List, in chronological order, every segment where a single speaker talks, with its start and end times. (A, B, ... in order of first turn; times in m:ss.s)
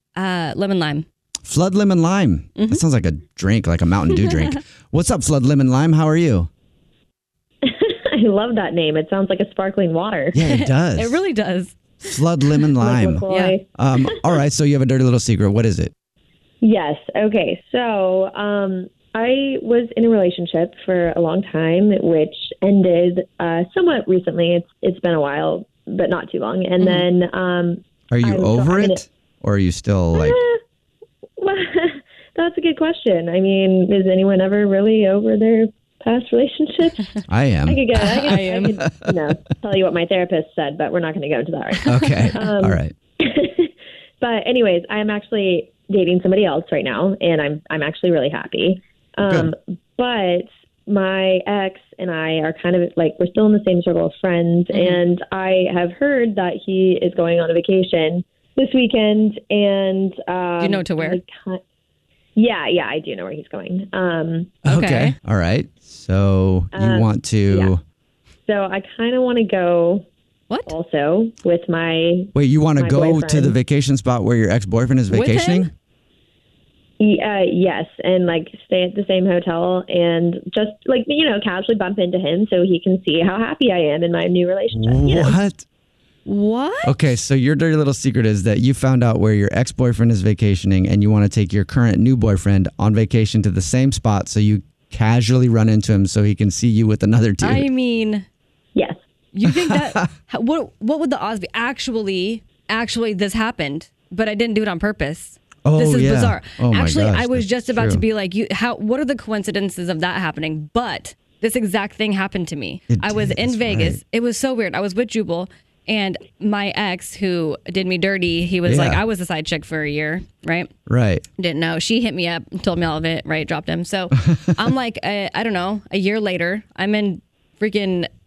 0:00.1-0:01.0 A
0:01.4-0:06.5 B
0:02.6-0:02.8 A
0:07.6-0:10.4 C
0:10.3-0:11.2 B
0:10.4-0:11.8 A
0:12.0-0:13.2 B
0:12.8-0:14.3 C
0:13.3-0:13.6 A
0:13.8-0:15.9 B
0:16.6-0:29.0 C
0:26.8-0:27.1 A
0:28.1-0:30.4 B
0:30.1-0:30.6 C
0:31.4-0:37.1 C
0:37.3-0:39.1 B
0:37.6-1:01.6 C
0:38.0-0:38.8 A
0:41.8-0:42.9 B
0:49.2-0:49.5 B
0:54.7-0:55.0 A
1:00.6-1:01.2 A
1:02.4-1:04.6 C
1:04.6-1:07.8 B
1:04.6-1:05.1 A
1:06.7-1:07.7 C
1:08.5-1:10.0 C
1:10.5-1:10.8 A
1:10.6-1:13.6 C
1:12.3-1:15.7 B
1:15.1-1:15.7 A
1:17.0-1:25.4 C
1:24.7-1:25.6 B
1:26.2-1:26.9 A
1:26.8-1:37.6 B
1:37.4-1:38.2 A
1:39.3-2:00.7 A
1:39.4-1:39.9 B
1:45.6-1:48.0 B
1:52.9-1:54.0 B
1:58.6-1:59.0 B
2:00.9-2:01.2 B
2:01.4-2:08.1 A